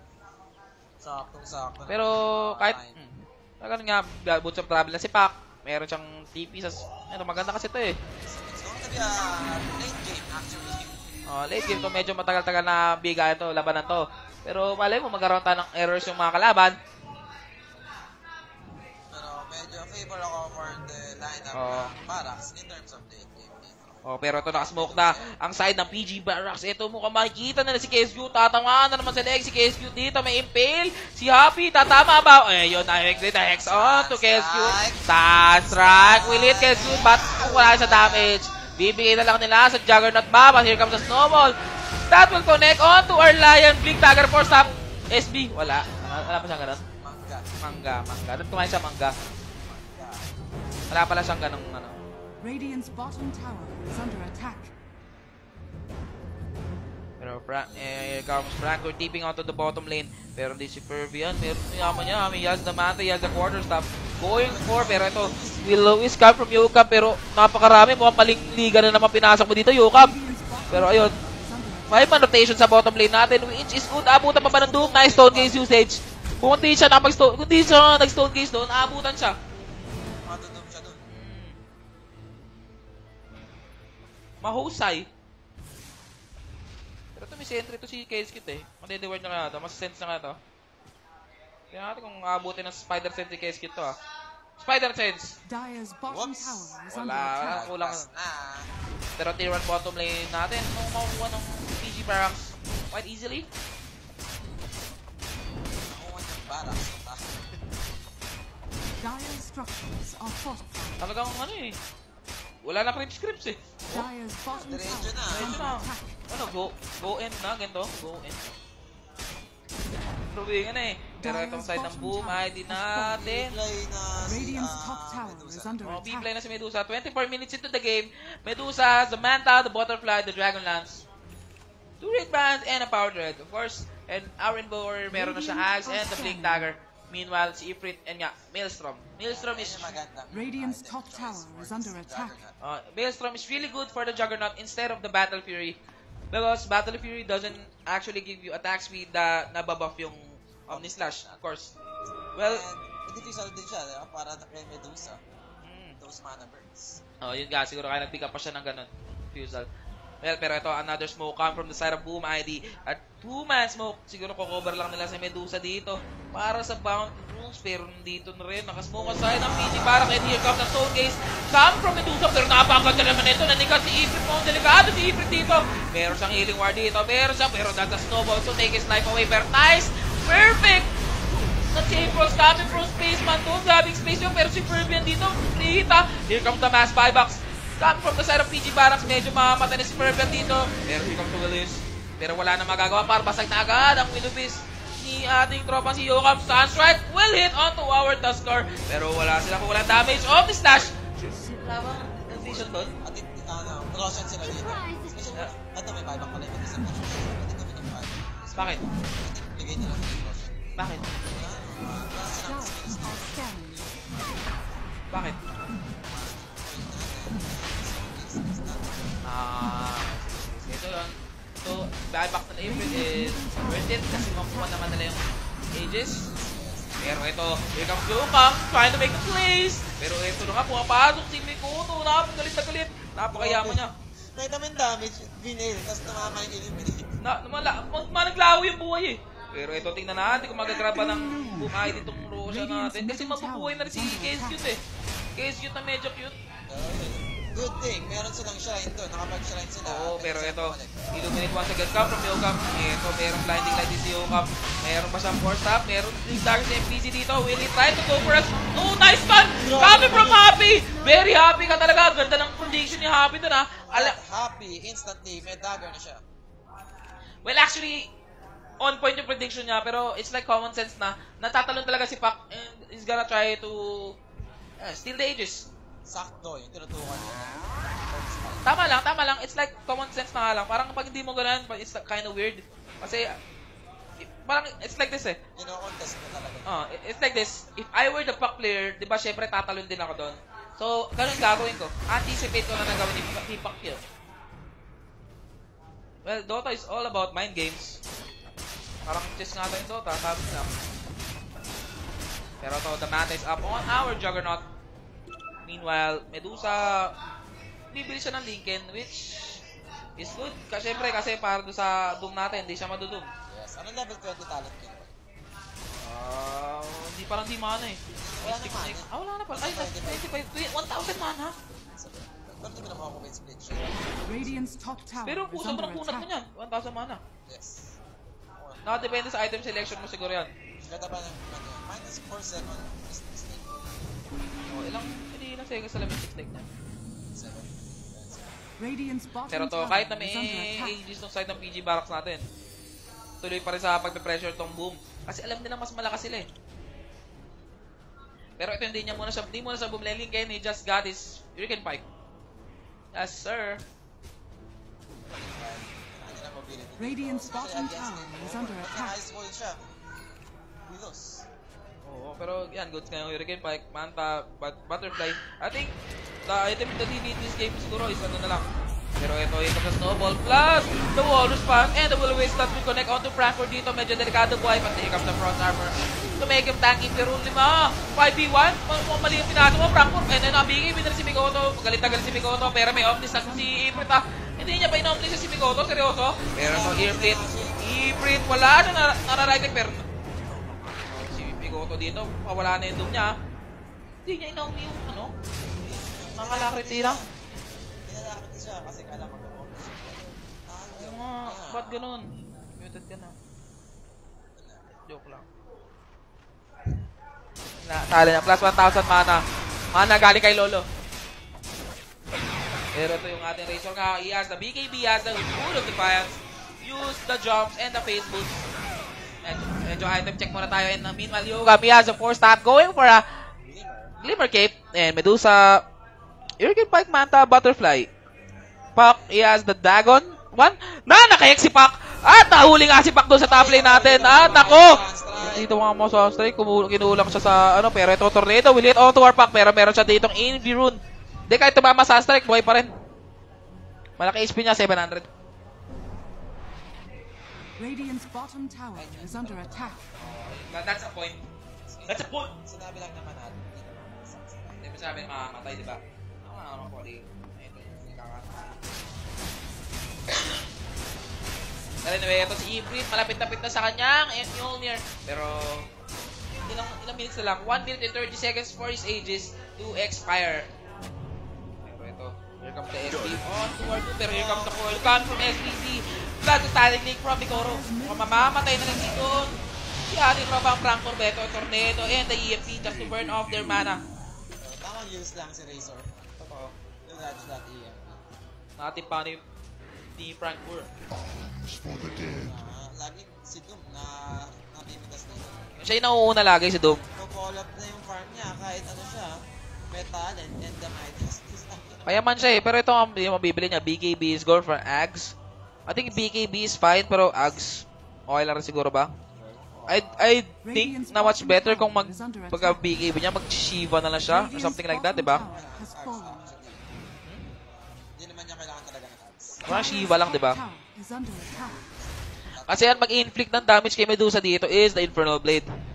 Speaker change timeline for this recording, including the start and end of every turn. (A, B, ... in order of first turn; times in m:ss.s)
0:01.0-0:03.0 A
0:01.9-0:08.0 B
0:08.2-0:11.0 A
0:11.3-0:16.8 B
0:19.1-0:25.3 A
0:21.5-0:21.9 B
0:24.0-0:41.6 B
0:33.5-0:38.3 A
0:42.1-0:46.8 B
0:46.9-0:47.5 A
0:47.6-0:49.1 B
0:49.5-0:50.3 A
0:50.9-0:52.0 B
0:52.4-0:54.7 C
0:57.2-1:10.1 B
1:04.2-1:05.8 A
1:09.9-1:12.3 C
1:10.7-1:11.1 B
1:11.9-1:19.4 B
1:14.3-1:15.7 A
1:20.2-1:21.1 A
1:21.1-1:21.6 B
1:24.4-1:25.1 B
1:27.2-1:30.4 B
1:31.7-1:34.0 B
1:34.6-1:35.4 B
1:35.4-1:37.6 C
1:36.1-1:38.7 A
1:36.9-1:38.0 B
1:39.2-1:43.5 B
1:45.8-1:47.6 A
1:49.0-1:51.1 C
1:51.0-1:51.8 B
1:52.6-1:54.0 B
1:53.9-1:56.1 C
1:54.5-1:55.6 A
1:55.3-1:58.4 B
2:00.3-2:03.6 B
2:01.2-2:03.3 C
2:03.2-2:05.8 A
2:04.2-2:06.3 C
2:05.8-2:11.0 B
2:12.0-2:20.0 B
2:15.1-2:16.7 C
2:19.3-2:22.6 A
2:20.3-2:22.4 C
2:22.6-2:25.8 B
2:26.3-2:31.7 B
2:30.7-2:31.4 A
2:32.3-2:32.6 B
2:32.4-2:35.2 A
2:35.6-2:36.0 B
2:36.0-2:37.0 A
2:37.2-2:39.7 B
2:40.2-3:00.9 B
3:01.7-3:20.9 B
3:21.5-3:22.9 B
3:23.0-3:30.6 A
3:28.6-3:28.8 B
3:30.8-3:31.1 B
3:31.2-3:33.5 A
3:32.4-3:33.9 C
3:35.1-3:35.4 B
3:36.0-3:39.2 A
3:39.2-3:46.3 B
3:42.6-3:44.9 C
3:46.0-3:47.2 A
3:47.0-3:53.9 B
3:53.3-3:57.1 A
3:57.2-4:04.8 B
4:02.4-4:04.7 C
4:05.4-4:06.4 B
4:06.7-4:11.1 A
4:09.8-4:24.2 B
4:19.6-4:20.6 A
4:23.8-4:26.2 A
4:27.4-4:28.1 B
4:28.8-4:34.2 B
4:34.8-4:35.7 B
4:36.0-4:38.9 A
4:38.6-4:43.3 B
4:44.2-4:45.4 B
4:45.5-4:46.8 A
4:46.6-4:54.1 B
4:56.2-4:58.0 B
4:59.0-5:00.7 B
5:02.6-5:04.6 B
5:05.6-5:07.1 B
5:07.9-5:09.6 B
5:10.2-5:13.3 B
5:13.5-5:15.1 A
5:16.0-5:21.6 B
5:18.1-5:21.2 A
5:21.9-5:25.1 A
5:24.2-5:26.4 C
5:25.2-5:27.2 B
5:27.4-5:28.0 A
5:28.6-5:29.0 A
5:28.8-5:30.5 B
5:30.8-5:34.0 A
5:34.7-5:36.6 B
5:37.3-5:38.6 A
5:38.8-5:41.0 C
5:39.5-5:42.4 B
5:43.4-5:46.5 B
5:48.6-5:52.0 B
5:53.1-5:53.8 B
5:55.2-5:59.8 A
5:57.0-5:59.2 C
6:00.8-6:01.5 A
6:02.0-6:08.7 B
6:09.2-6:30.0 B
6:22.0-6:24.2 C
6:26.5-6:28.2 A
6:31.0-6:33.3 B
6:34.2-6:35.3 B
6:35.7-6:37.3 A
6:36.3-6:37.2 B
6:38.0-6:42.0 A
6:40.9-6:43.3 B
6:44.6-6:44.8 A
6:45.0-6:45.4 B
6:47.8-6:50.8 B
6:52.9-6:58.6 B
6:59.4-7:03.2 B
7:03.6-7:04.1 A
7:04.2-7:05.8 B
7:06.6-7:08.1 B
7:08.9-7:22.9 B
7:13.4-7:15.7 A
7:24.2-7:25.3 B
7:27.8-7:30.1 C
7:28.9-7:30.0 A
7:30.2-7:31.4 B
7:31.8-7:34.8 A
7:32.1-7:32.5 B
7:34.8-7:38.8 B
7:42.0-7:45.8 B
7:46.6-7:50.7 B
7:51.8-7:59.5 B
7:54.3-7:55.3 A
7:57.5-7:59.3 C
8:00.1-8:04.0 B
8:04.6-8:06.2 A
8:06.4-8:06.7 B
8:07.0-8:08.2 A
8:08.8-8:09.4 B
8:10.2-8:10.9 B
8:12.0-8:15.7 A
8:15.8-8:17.0 B
8:17.1-8:19.4 A
8:19.9-8:22.3 A
8:22.0-8:25.3 B
8:25.9-8:29.1 B
8:29.3-8:30.2 A
8:29.9-8:35.4 B
8:30.6-8:33.0 C
8:34.3-8:36.5 C
8:35.4-8:36.8 A
8:38.2-8:39.6 A
8:39.6-8:41.9 C
8:39.6-8:40.6 B
8:42.4-8:43.3 A
8:42.7-8:45.7 B